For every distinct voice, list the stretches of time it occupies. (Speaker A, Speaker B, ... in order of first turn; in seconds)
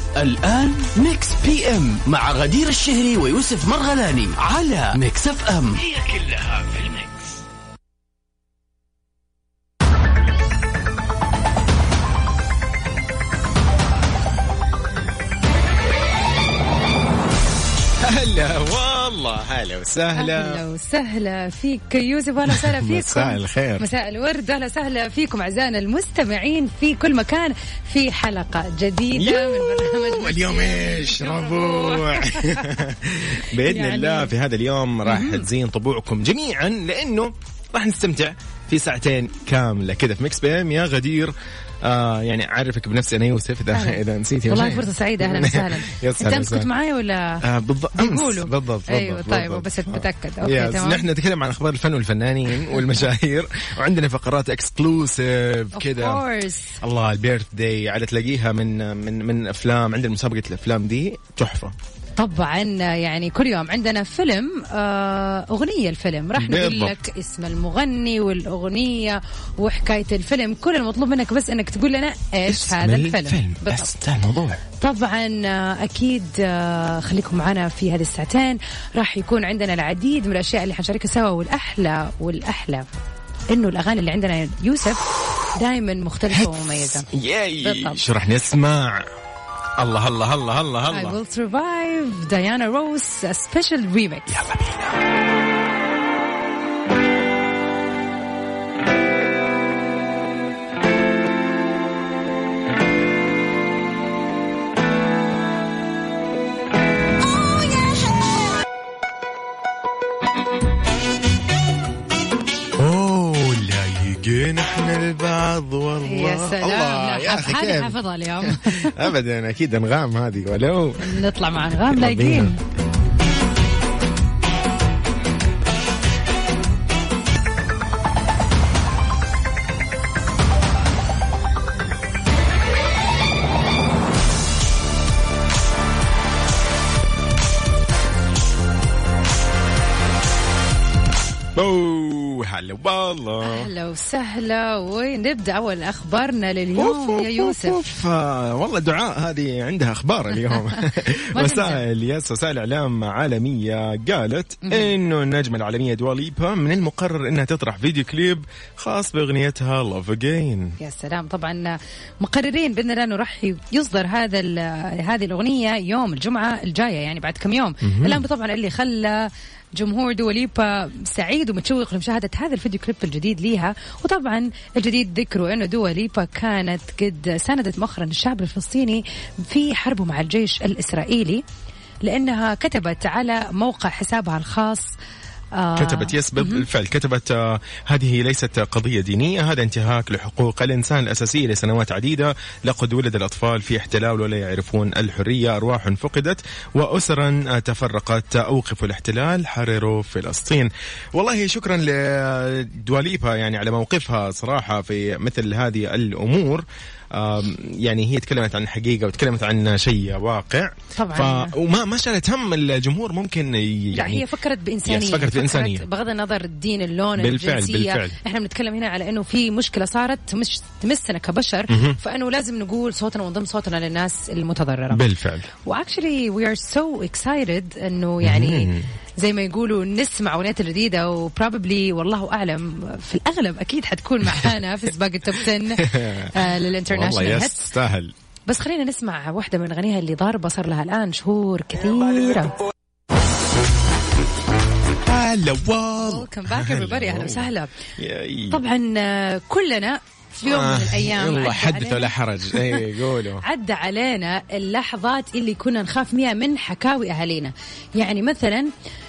Speaker A: 0.2-5.8
Speaker B: 18.0-20.6, 22.5-23.9, 29.1-46.7, 47.4-56.2, 56.8-61.7, 66.4-67.0, 72.5-74.6, 86.3-89.0, 89.8-91.2, 94.3-95.0, 112.8-122.6, 141.6-143.7, 146.8-160.8, 167.8-168.2, 185.8-214.3, 214.8-215.8, 217.2-218.2, 221.7-222.0, 224.9-225.5, 228.2-228.8, 234.3-234.5, 235.5-238.1, 245.1-248.6, 250.4-253.4
Speaker C: 20.1-32.8, 33.6-34.3, 35.1-35.5, 43.7-47.4, 48.0-51.0, 55.7-56.8, 62.2-73.9, 74.8-82.9, 83.5-87.1, 87.6-88.0, 90.9-94.4, 116.0-119.0, 121.0-122.6, 143.4-147.8, 151.3-151.8, 154.6-154.9, 160.8-181.4, 182.0-184.9, 185.6-186.7, 211.0-211.5, 213.9-225.0, 225.7-237.7, 238.5-242.6, 246.0-247.7, 248.5-252.8, 253.4-258.7